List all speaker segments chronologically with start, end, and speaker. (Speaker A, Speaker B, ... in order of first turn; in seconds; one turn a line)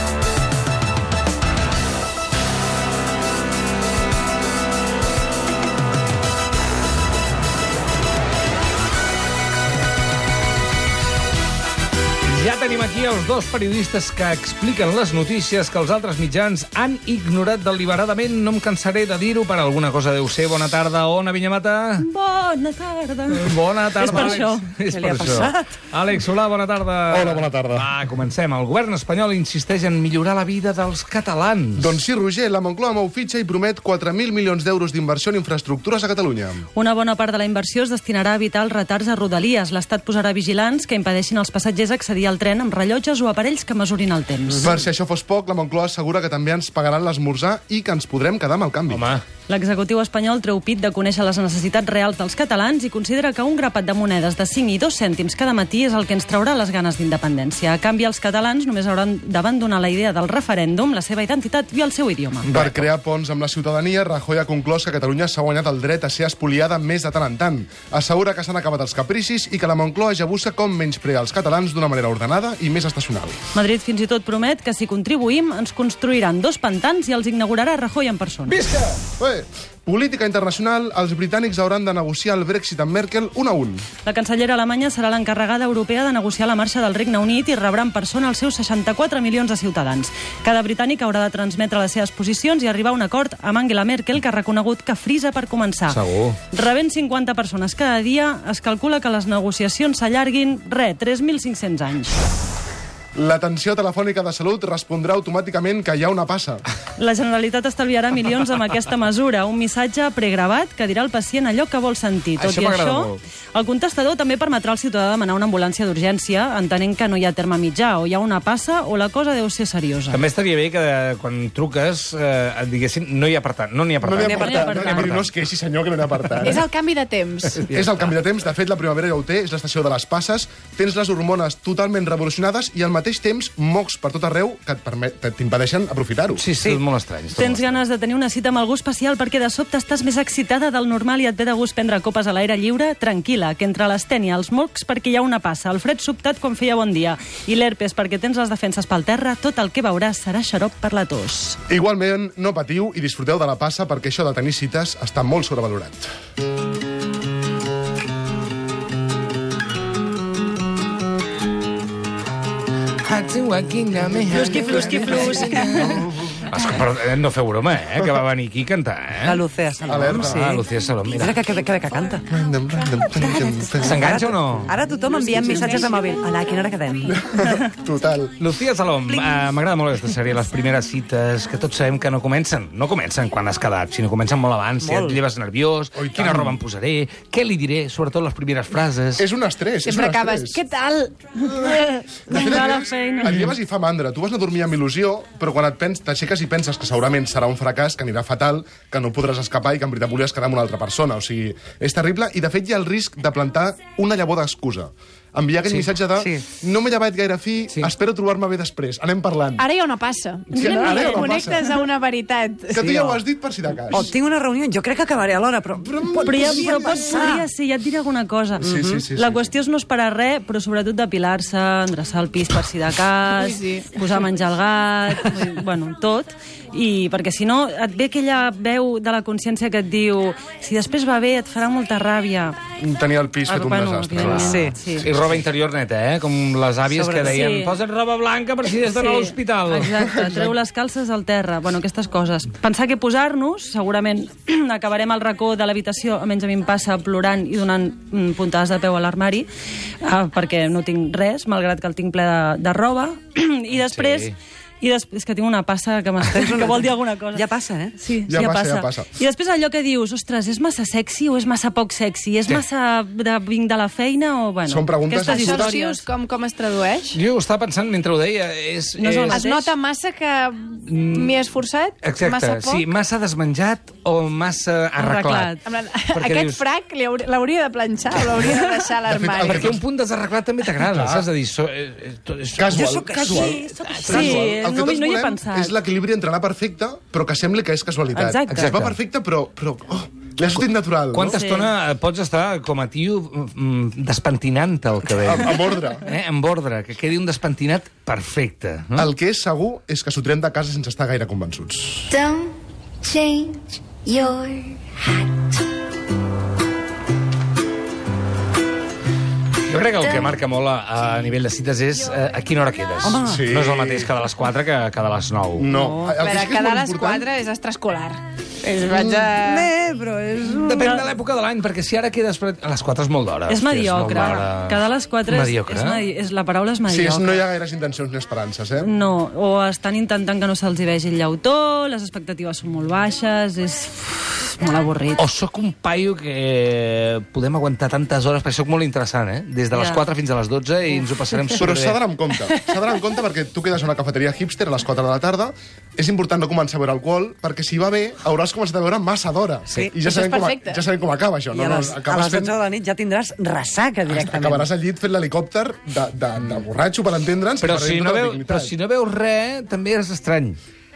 Speaker A: 12.2-22.0
Speaker B: 22.0-24.7
Speaker A: 23.3-31.9
Speaker C: 24.9-25.6
Speaker D: 27.1-27.9
Speaker D: 31.8-36.6
Speaker B: 36.7-44.8
Speaker D: 44.6-49.1
Speaker A: 48.9-49.2
Speaker B: 49.5-62.5
Speaker A: 62.4-62.9
Speaker D: 62.5-73.4
Speaker B: 73.5-78.6
Speaker A: 78.5-79.0
Speaker D: 79.2-83.8
Speaker B: 84.0-96.0
Speaker A: 95.9-96.4
Speaker B: 96.5-102.1
Speaker D: 103.1-106.6
Speaker B: 107.0-120.2
Speaker A: 112.4-113.2
Speaker A: 120.1-125.3
Speaker D: 124.0-126.6
Speaker C: 124.2-124.5
Speaker B: 124.2-125.2
Speaker E: 126.5-127.6
Speaker A: 127.5-128.2
Speaker D: 127.7-136.4
Speaker A: 136.3-137.8
Speaker B: 137.3-151.6
Speaker D: 151.7-156.1
Speaker A: 163.0-169.4
Speaker B: 164.3-166.0
Speaker C: 164.9-165.3
Speaker C: 169.2-172.2
Speaker D: 169.8-170.5
Speaker A: 170.2-171.4
Speaker D: 172.3-174.2
Speaker C: 173.1-177.2
Speaker A: 173.8-174.8
Speaker B: 175.3-175.9
Speaker D: 177.1-178.3
Speaker A: 178.4-189.2
Speaker C: 184.8-185.2
Speaker D: 185.9-186.6
Speaker D: 189.2-190.6
Speaker E: 189.8-191.1
Speaker D: 191.5-209.7
Speaker B: 191.5-193.4
Speaker C: 206.2-206.4
Speaker E: 209.6-212.9
Speaker D: 210.5-211.7
Speaker B: 210.5-211.4
Speaker D: 212.7-214.1
Speaker A: 212.7-213.2
Speaker C: 213.9-217.4
Speaker D: 215.8-217.0
Speaker B: 216.2-232.6
Speaker D: 218.6-219.5
Speaker C: 218.7-218.9
Speaker E: 223.4-223.9
Speaker D: 232.8-234.6
Speaker B: 233.5-235.1
Speaker A: 234.2-239.9
Speaker C: 234.3-234.7
Speaker C: 236.9-237.4
Speaker B: 237.2-237.7
Speaker B: 238.8-249.5
Speaker D: 240.0-240.5
Speaker B: 250.0-257.4
Speaker A: 253.7-254.3
Speaker C: 256.3-257.9
Speaker B: 258.0-266.0
Speaker D: 258.2-259.1
Speaker D: 264.6-265.8
Speaker E: 265.3-267.1
Speaker A: 267.1-269.4
Speaker B: 269.0-269.7
Speaker E: 269.3-272.8
Speaker A: 270.9-271.4
Speaker A: 272.0-276.6
Speaker B: 275.0-275.6
Speaker E: 275.7-279.6
Speaker D: 279.1-279.8
Speaker A: 279.4-284.4
Speaker D: 280.8-281.3
Speaker D: 282.5-291.4
Speaker C: 282.7-284.4
Speaker B: 284.1-285.7
Speaker B: 288.1-288.8
Speaker A: 288.5-288.9
Speaker A: 291.1-299.1
Speaker B: 291.2-291.7
Speaker D: 295.2-296.1
Speaker D: 298.9-302.1
Speaker F: 302.1-305.5
Speaker A: 309.7-315.7
Speaker C: 313.0-313.4
Speaker D: 313.2-314.1
Speaker D: 315.6-317.2
Speaker B: 315.7-316.2
Speaker E: 316.3-319.7
Speaker D: 318.9-319.2
Speaker C: 319.3-321.0
Speaker A: 320.5-326.0
Speaker B: 323.5-327.4
Speaker D: 326.9-328.9
Speaker B: 328.8-335.2
Speaker A: 335.2-342.0
Speaker B: 339.7-340.1
Speaker D: 341.6-352.6
Speaker C: 349.7-350.0
Speaker E: 350.1-350.8
Speaker C: 351.5-354.7
Speaker D: 354.1-358.7
Speaker A: 357.6-360.6